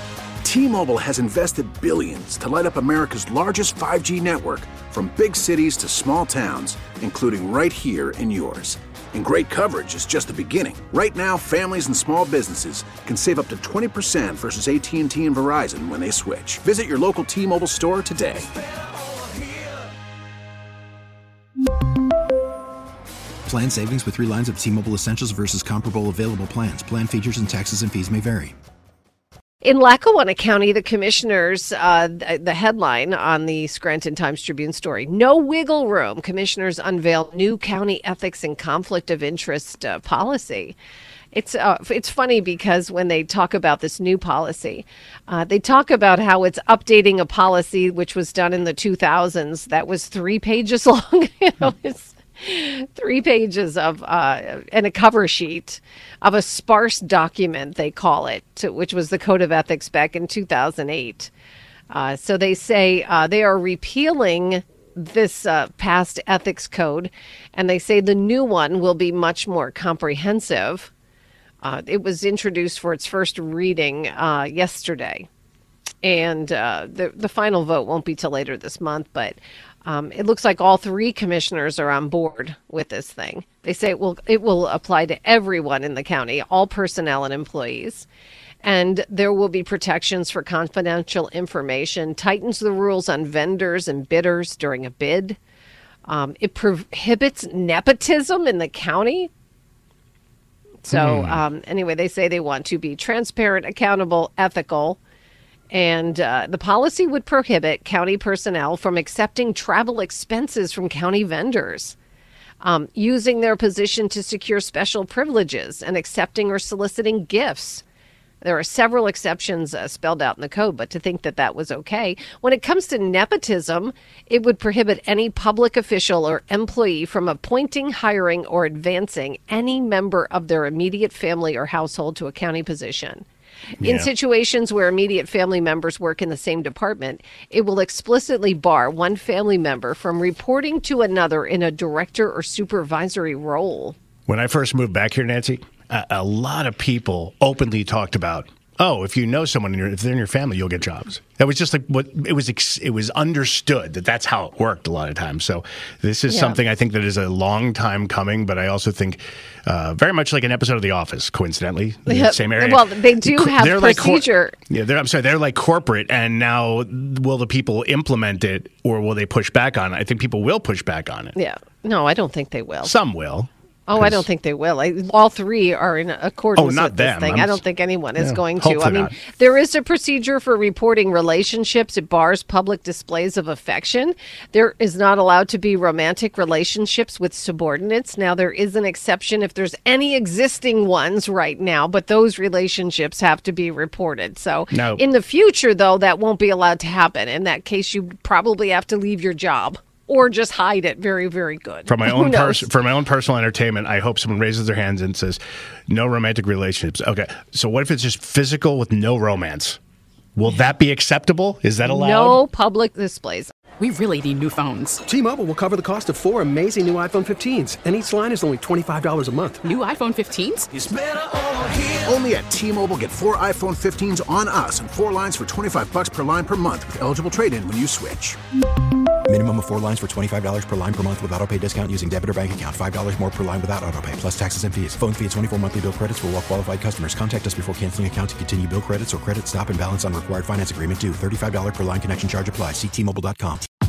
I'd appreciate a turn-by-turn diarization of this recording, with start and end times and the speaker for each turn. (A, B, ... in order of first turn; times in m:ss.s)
0:00.4-0:18.5 A
0:23.4-0:28.5 B
0:29.6-0:40.8 C
0:41.3-1:01.3 C
1:01.9-1:10.9 C
1:11.6-1:15.3 C
1:16.0-1:28.1 C
1:28.6-1:35.4 C
1:36.1-1:39.3 C
1:40.8-1:45.0 C
1:40.9-1:41.4 D
1:45.7-1:52.0 C
1:52.6-1:57.8 C
1:58.4-2:13.2 C
2:13.8-2:24.0 C
2:13.8-2:14.1 D
2:24.3-2:51.4 D
2:36.3-2:36.6 C
2:42.1-2:44.6 C
2:51.4-2:53.0 C
2:52.8-2:54.2 D
2:53.9-3:22.7 C
2:56.6-2:57.6 D
2:58.2-2:59.2 D
3:14.7-3:15.0 D
3:21.9-3:29.8 D
3:30.4-3:32.4 D
3:31.8-3:33.5 C
3:33.8-3:35.0 E
3:35.0-3:39.8 F
3:39.7-3:40.7 E
3:40.7-3:48.4 A
3:49.3-4:03.7 B